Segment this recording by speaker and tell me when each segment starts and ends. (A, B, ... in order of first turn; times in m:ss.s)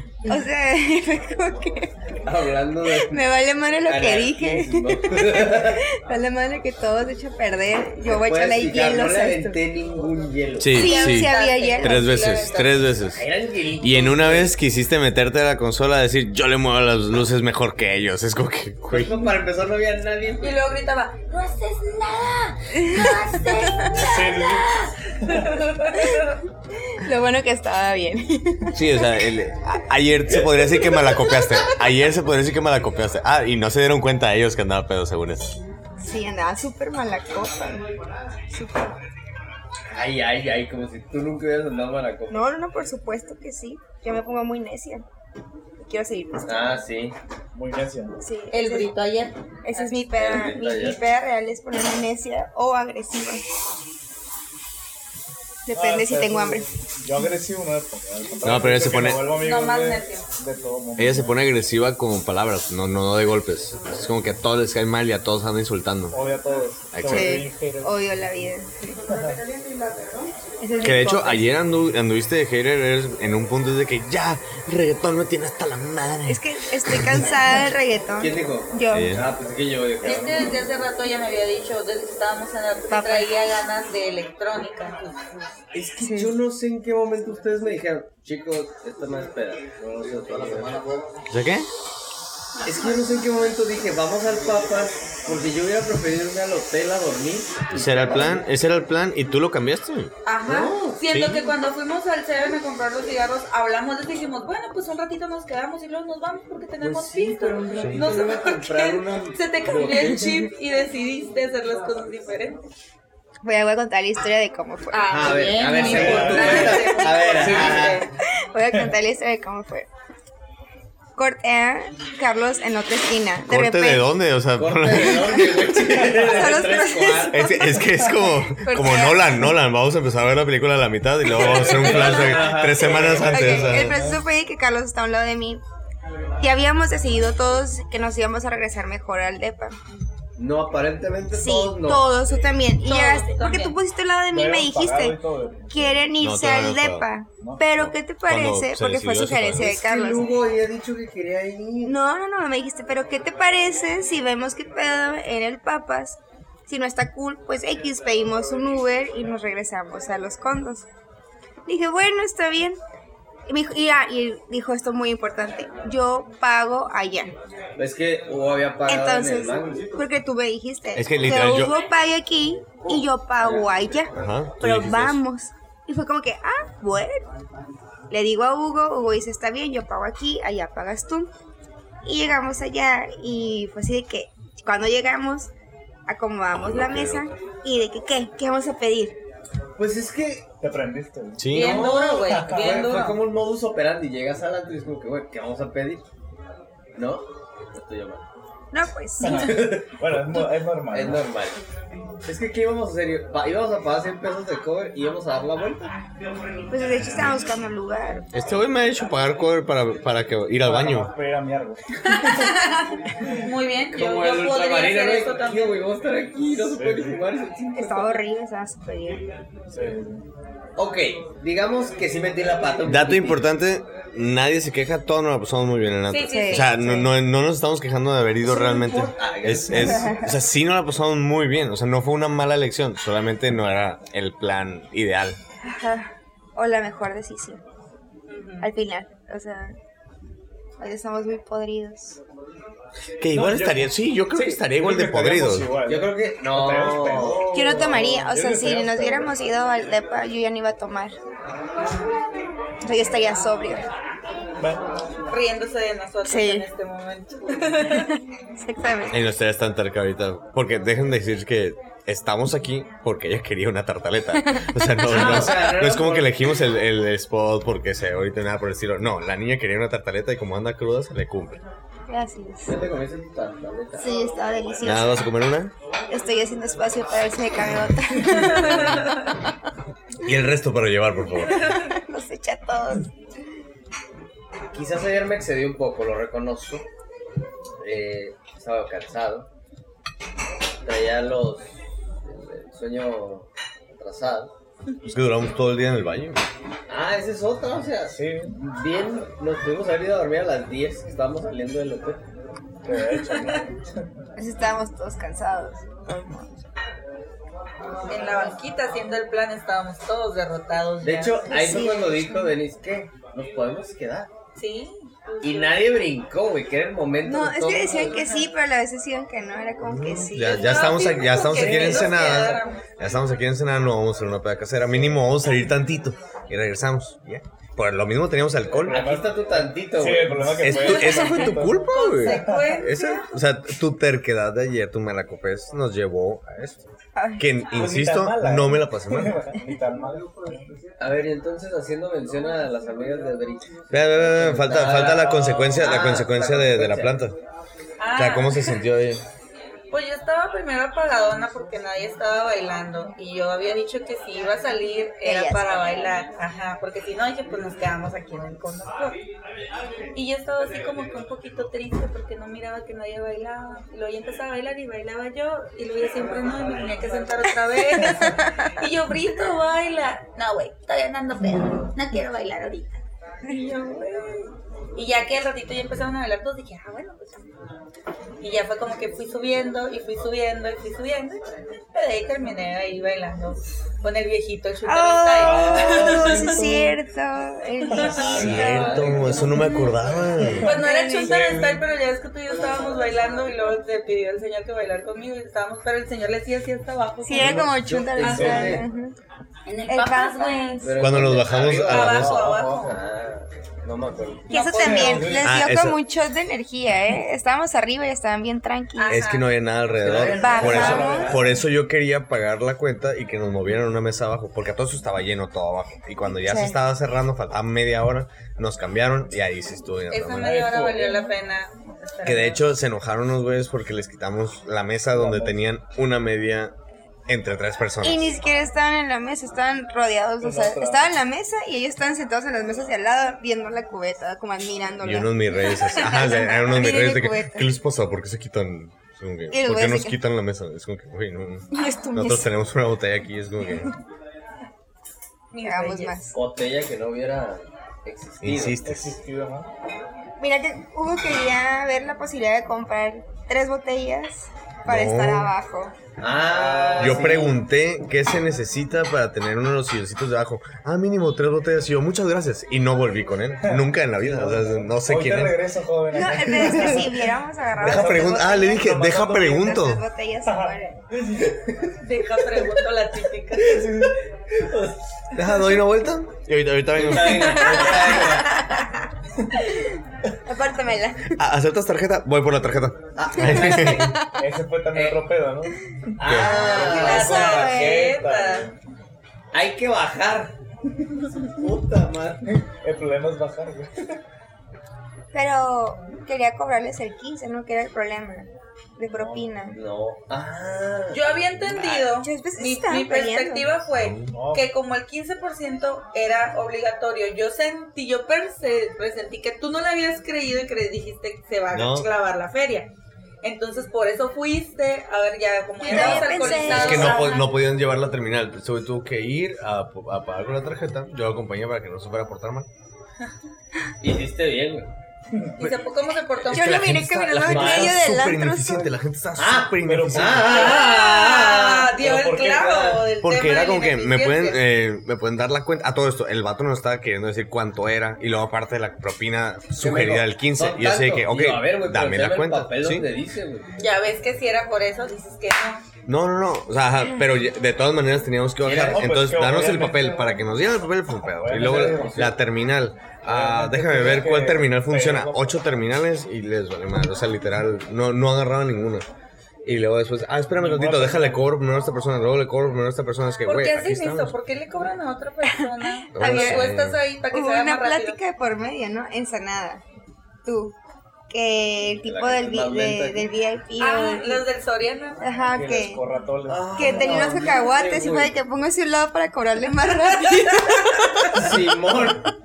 0:00.2-0:02.1 A
0:02.2-0:03.2 B
0:02.8-0:09.6 A
0:03.8-0:05.8 B
0:08.1-0:10.9 B
0:10.6-0:13.3 C
0:10.7-0:12.3 A
0:10.8-0:12.9 D
0:13.1-0:14.5 B
0:13.8-0:19.3 C
0:18.9-0:20.6 B
0:20.4-0:26.4 D
0:22.8-0:23.9 A
0:24.0-0:25.6 E
0:26.8-0:28.9 A
0:28.7-0:35.5 C
0:30.3-0:31.0 B
0:36.0-0:37.8 A
0:38.5-0:39.0 A
0:39.9-0:42.5 B
0:42.3-0:45.0 A
0:45.8-0:46.8 A
0:46.5-0:47.2 B
0:47.5-0:48.2 E
0:48.2-0:48.9 A
0:48.5-0:49.9 D
0:49.6-0:53.4 A
0:50.1-0:51.0 B
0:55.6-0:56.7 A
0:55.8-1:01.4 E
0:58.4-0:59.4 C
0:59.4-1:00.3 D
1:01.0-1:06.2 C
1:06.1-1:08.0 E
1:06.9-1:07.4 C
1:07.1-1:11.5 A
1:09.0-1:09.4 E
1:10.8-1:17.3 C
1:16.3-1:19.2 A
1:18.2-1:20.5 B
1:18.9-1:19.3 C
1:20.0-1:25.5 D
1:22.9-1:23.3 A
1:25.7-1:30.9 B
1:26.0-1:26.3 A
1:31.3-1:31.7 C
1:32.6-1:38.4 B
1:37.7-1:40.1 C
1:40.2-1:52.6 D
1:40.4-1:41.0 B
1:41.1-1:41.5 C
1:46.8-1:50.3 B
1:47.8-1:48.1 C
1:53.4-1:57.3 A
1:54.9-1:58.1 D
1:55.1-1:58.1 B
1:55.8-1:56.8 E
1:58.2-1:59.9 A
2:01.2-2:04.1 A
2:03.5-2:05.6 C
2:04.6-2:07.6 B
2:05.1-2:07.8 A
2:07.3-2:14.0 C
2:08.4-2:09.5 A
2:11.2-2:13.6 B
2:13.0-2:14.2 E
2:13.2-2:15.6 A
2:16.4-2:19.8 A
2:20.4-2:22.1 B
2:21.3-2:30.4 A
2:22.8-2:23.8 D
2:24.3-2:26.0 E
2:26.1-2:27.0 C
2:27.4-2:27.6 E
2:27.7-2:29.8 C
2:29.6-2:32.0 B
2:31.8-2:40.9 A
2:41.6-2:42.8 A
2:43.5-2:47.3 A
2:47.8-2:49.9 B
2:48.9-2:57.2 A
2:51.0-2:51.8 C
2:52.9-2:53.8 B
2:54.1-2:55.2 C
2:58.1-3:01.3 A
3:02.0-3:05.5 A
3:06.1-3:09.2 A
3:06.5-3:07.3 C
3:09.8-3:10.5 B
3:10.6-3:13.0 E
3:11.4-3:11.9 C
3:11.5-3:16.0 B
3:11.5-3:13.2 D
3:17.0-3:18.2 B
3:18.7-3:19.7 A
3:19.2-3:21.6 B
3:19.2-3:21.3 E
3:22.2-3:25.9 B
3:26.7-3:28.3 A
3:28.3-3:31.1 C
3:30.6-3:32.5 E
3:32.0-3:35.8 D
3:33.9-3:38.2 B
3:36.7-3:37.2 E
3:37.8-3:39.3 A
3:39.7-3:40.2 E
3:40.8-3:43.4 B
3:42.9-3:55.4 C
3:46.1-3:46.7 D
3:46.2-3:47.1 A
3:48.5-3:49.1 A
3:48.8-3:50.1 B
3:49.8-3:50.4 A
3:55.6-3:57.6 A
3:58.3-3:58.7 D
3:58.6-3:59.8 A
4:00.8-4:02.2 A
4:03.2-4:05.8 C
4:03.3-4:09.3 E
4:05.9-4:07.5 B
4:07.5-4:11.2 A
4:12.8-4:13.9 A
4:14.6-4:14.8 E
4:15.3-4:18.1 D
4:16.2-4:16.7 A
4:17.9-4:19.2 A
4:19.1-4:31.6 C
4:24.3-4:25.5 A
4:25.0-4:26.4 B
4:32.1-4:32.8 A
4:32.7-4:34.3 B
4:34.0-4:35.3 A
4:34.8-4:35.7 C
4:36.1-4:39.5 A
4:38.3-4:39.3 D
4:40.2-4:41.6 C
4:41.5-4:41.9 D
4:41.5-4:43.1 A
4:44.7-4:46.8 B
4:47.8-4:49.5 B
4:50.8-4:51.7 B
4:52.2-4:54.5 B
4:55.0-4:56.4 C
4:56.9-5:02.2 B
4:58.1-4:58.6 E
5:02.8-5:03.8 E
5:03.0-5:03.6 D
5:04.4-5:06.6 A
5:08.1-5:11.6 D
5:11.0-5:14.3 B
5:11.5-5:12.5 A
5:14.6-5:15.8 D
5:15.4-5:18.1 B
5:17.2-5:21.2 A
5:18.1-5:18.5 D
5:19.9-5:29.1 C
5:20.4-5:22.8 D
5:21.7-5:22.0 B
5:28.8-5:32.8 E
5:28.9-5:30.8 B
5:30.6-5:36.8 C
5:30.9-5:31.6 A
5:31.9-5:33.2 D
5:37.2-5:37.6 A
5:37.4-5:39.5 C
5:37.7-5:40.7 E
5:41.0-5:47.2 B
5:43.9-5:47.4 C
5:48.0-5:48.7 D
5:48.2-5:49.2 C
5:49.9-5:59.2 D
5:55.2-5:55.9 A
6:00.1-6:13.0 D
6:08.0-6:08.7 A
6:13.4-6:14.5 A
6:15.0-6:17.5 D
6:18.4-6:21.4 D
6:21.9-6:26.6 D
6:24.8-6:28.9 A
6:25.4-6:27.0 E
6:27.9-6:29.3 E
6:28.0-6:28.9 D
6:28.2-6:29.8 B
6:28.3-6:30.7 C
6:30.4-6:30.7 E
6:30.6-6:31.5 A
6:30.6-6:38.8 D
6:31.2-6:31.8 E
6:37.2-6:39.2 A
6:37.4-6:38.8 B
6:38.2-6:38.7 E
6:39.7-6:40.9 D
6:39.9-6:40.9 A
6:40.8-6:44.4 B
6:41.0-6:42.5 C
6:41.9-6:43.0 D
6:42.4-6:43.0 E
6:44.5-6:49.3 A
6:44.5-6:45.5 D
6:44.8-6:45.5 E
6:45.4-6:46.0 C
6:49.0-6:49.5 D
6:49.1-7:00.6 C
6:49.9-6:51.2 B
6:50.4-6:51.4 A
6:50.5-6:51.1 D
6:50.5-6:51.6 E
6:56.4-6:56.8 A
7:00.1-7:02.6 D
7:00.4-7:01.3 E
7:02.2-7:06.7 C
7:05.1-7:05.6 E
7:07.3-7:08.3 C
7:08.0-7:17.7 A
7:10.4-7:11.0 E
7:15.0-7:23.9 C
7:19.5-7:20.2 A
7:21.7-7:22.5 A
7:23.7-7:23.9 A
7:25.5-7:26.2 D
7:25.6-7:26.4 A
7:26.3-7:28.8 B
7:28.4-7:29.2 C
7:28.8-7:29.7 E
7:30.4-7:36.0 A
7:34.8-7:35.5 C
7:36.2-7:37.6 B
7:36.4-7:37.5 E
7:37.0-7:45.7 C
7:43.6-7:47.2 E
7:46.1-7:51.0 A
7:47.8-7:49.7 E
7:47.8-7:50.0 C
7:50.5-7:51.8 E
7:52.0-7:53.8 D
7:53.6-7:54.2 E
7:53.7-7:55.0 B
7:55.3-7:58.1 C
7:56.9-7:58.6 B
7:57.7-7:58.9 A
8:00.5-8:01.4 A
8:01.4-8:04.2 C
8:03.2-8:04.2 B
8:03.6-8:04.3 A
8:04.3-8:08.8 E
8:04.9-8:05.2 B
8:06.2-8:08.1 B
8:06.2-8:06.8 C
8:06.3-8:07.9 A
8:06.6-8:08.7 D
8:09.5-8:10.5 B
8:11.4-8:12.5 B
8:12.8-8:14.2 E
8:15.3-8:19.8 A
8:19.1-8:19.5 E
8:19.7-8:21.4 B
8:21.1-8:32.9 D
8:21.9-8:23.7 A
8:23.9-8:24.3 C
8:24.3-8:24.7 E
8:31.7-8:32.1 C
8:33.4-8:37.4 D
8:35.8-8:37.5 A
8:36.0-8:42.7 C
8:44.0-8:44.9 B
8:45.3-8:45.6 E
8:45.6-8:46.8 D
8:46.4-8:50.7 C
8:46.5-8:49.0 A
8:47.4-8:48.0 B
8:49.4-8:53.1 B
8:49.8-8:50.8 E
8:50.5-8:54.6 D
8:52.0-8:52.8 E
8:53.2-9:03.0 C
8:59.8-9:03.7 B
9:03.8-9:05.8 D
9:06.0-9:19.0 C
9:08.6-9:09.1 B
9:08.8-9:10.4 E
9:11.2-9:12.3 E
9:11.5-9:12.3 B
9:13.2-9:15.6 E
9:19.7-9:24.3 C
9:20.5-9:21.5 E
9:23.4-9:28.2 D
9:25.5-9:26.8 A
9:26.2-9:27.0 C
9:27.3-9:29.8 A
9:30.4-9:30.8 A
9:31.3-9:34.4 A
9:32.0-9:33.3 B
9:33.8-9:35.2 D
9:35.2-9:36.0 A
9:35.5-9:37.5 E
9:36.5-9:38.4 B
9:36.8-9:41.7 A
9:40.2-9:41.2 D
9:41.3-9:42.3 B